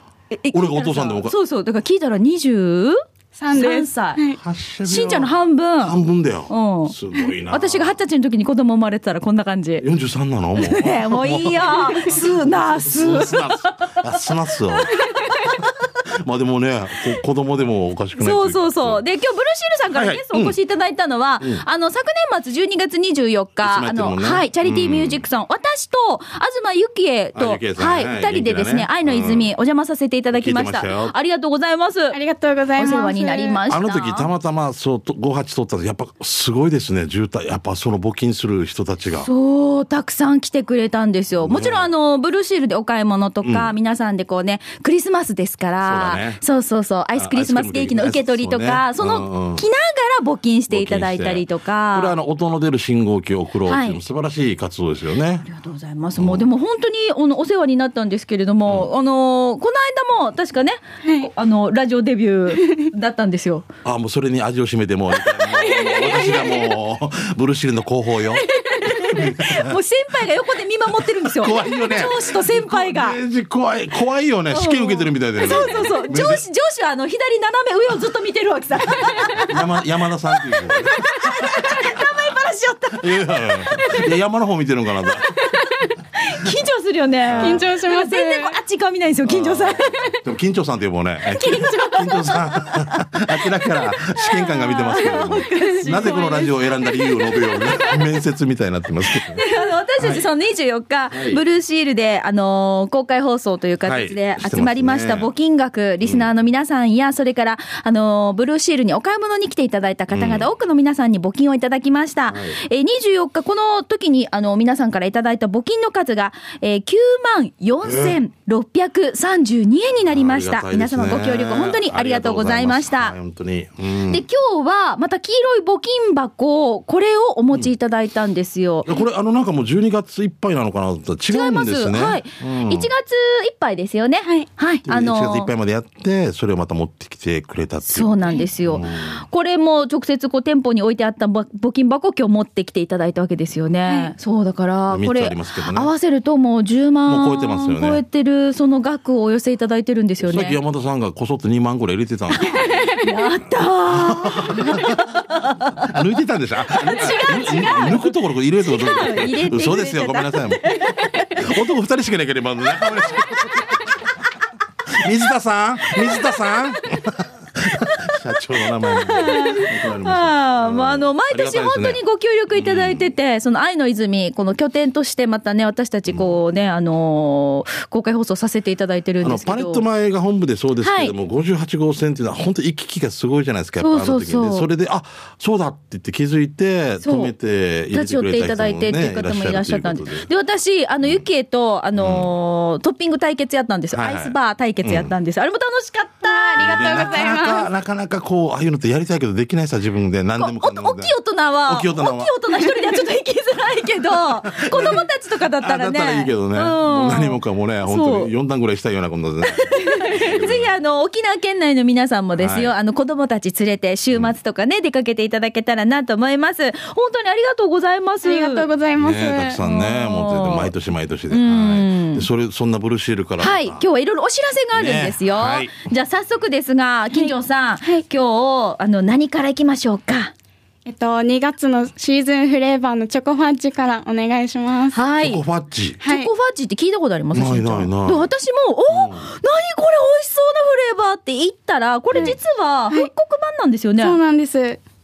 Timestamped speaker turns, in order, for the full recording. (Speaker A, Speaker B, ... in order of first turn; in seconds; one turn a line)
Speaker A: 0.3-4.2
Speaker B: 0.5-1.3
Speaker C: 3.4-4.4
Speaker B: 4.4-8.0
Speaker A: 4.8-6.0
Speaker A: 6.5-6.9
Speaker A: 7.5-9.8
Speaker B: 9.8-19.0
Speaker A: 10.6-15.6
Speaker A: 18.2-32.2
Speaker B: 19.9-20.6
Speaker B: 21.4-21.6
Speaker B: 23.6-25.2
Speaker B: 27.4-29.5
Speaker B: 30.3-31.1
Speaker C: 32.1-33.6
Speaker A: 32.8-34.3
Speaker B: 33.7-39.3
Speaker A: 39.2-52.1
Speaker B: 41.4-41.9
Speaker B: 43.4-43.7
Speaker B: 45.8-46.4
Speaker B: 47.1-49.6
Speaker B: 50.7-55.5
Speaker A: 53.7-54.0
Speaker A: 55.5-63.6
Speaker B: 56.2-56.5
Speaker C: 61.0-61.3
Speaker C: 62.6-62.8
Speaker B: 63.8-69.8
Speaker A: 65.5-66.3
Speaker A: 68.5-73.2
Speaker B: 71.0-76.4
Speaker A: 74.5-79.5
Speaker B: 79.5-82.0
Speaker A: 80.3-84.0
Speaker B: 82.9-85.3
Speaker A: 86.2-90.1
Speaker B: 87.2-87.7
Speaker C: 87.4-88.5
Speaker B: 89.2-99.4
Speaker C: 91.4-92.3
Speaker A: 91.4-93.0
Speaker A: 93.7-98.0
Speaker C: 95.1-95.6
Speaker A: 99.1-123.2
Speaker B: 100.0-100.2
Speaker B: 101.1-101.4
Speaker B: 103.8-105.3
Speaker B: 110.1-110.5
Speaker B: 112.3-112.6
Speaker B: 117.8-118.2
Speaker B: 120.1-124.2
Speaker A: 124.1-128.9
Speaker B: 128.8-132.9
Speaker A: 131.3-135.5
Speaker B: 134.8-139.2
Speaker A: 137.8-150.6
Speaker C: 143.8-144.1
Speaker B: 144.9-145.9
Speaker B: 147.1-148.0
Speaker B: 150.2-153.0
Speaker A: 152.4-155.9
Speaker C: 152.7-153.1
Speaker B: 153.8-155.2
Speaker B: 155.8-164.0
Speaker A: 156.8-161.4
Speaker C: 157.0-157.3
Speaker B: 164.9-172.0
Speaker A: 168.8-179.8
Speaker B: 172.5-173.1
Speaker B: 179.2-190.3
Speaker A: 180.8-181.1
Speaker A: 183.8-184.7
Speaker A: 187.0-187.3
Speaker A: 187.9-197.3
Speaker B: 191.9-192.3
Speaker B: 193.9-195.1
Speaker C: 196.2-197.7
Speaker B: 196.6-201.1
Speaker A: 200.4-208.3
Speaker B: 201.7-202.3
Speaker B: 204.1-205.1
Speaker B: 205.6-210.7
Speaker A: 209.4-218.7
Speaker B: 212.4-212.7
Speaker C: 218.2-219.6
Speaker B: 219.0-223.8
Speaker A: 219.6-220.7
Speaker A: 221.3-222.3
Speaker A: 223.4-230.3
Speaker B: 224.7-225.7
Speaker C: 227.1-228.0
Speaker C: 230.8-235.0
Speaker A: 234.9-235.4
Speaker B: 235.2-236.0
Speaker C: 236.0-236.3
Speaker A: 236.0-244.2
Speaker B: 237.3-238.3
Speaker B: 238.9-239.3
Speaker C: 244.0-244.8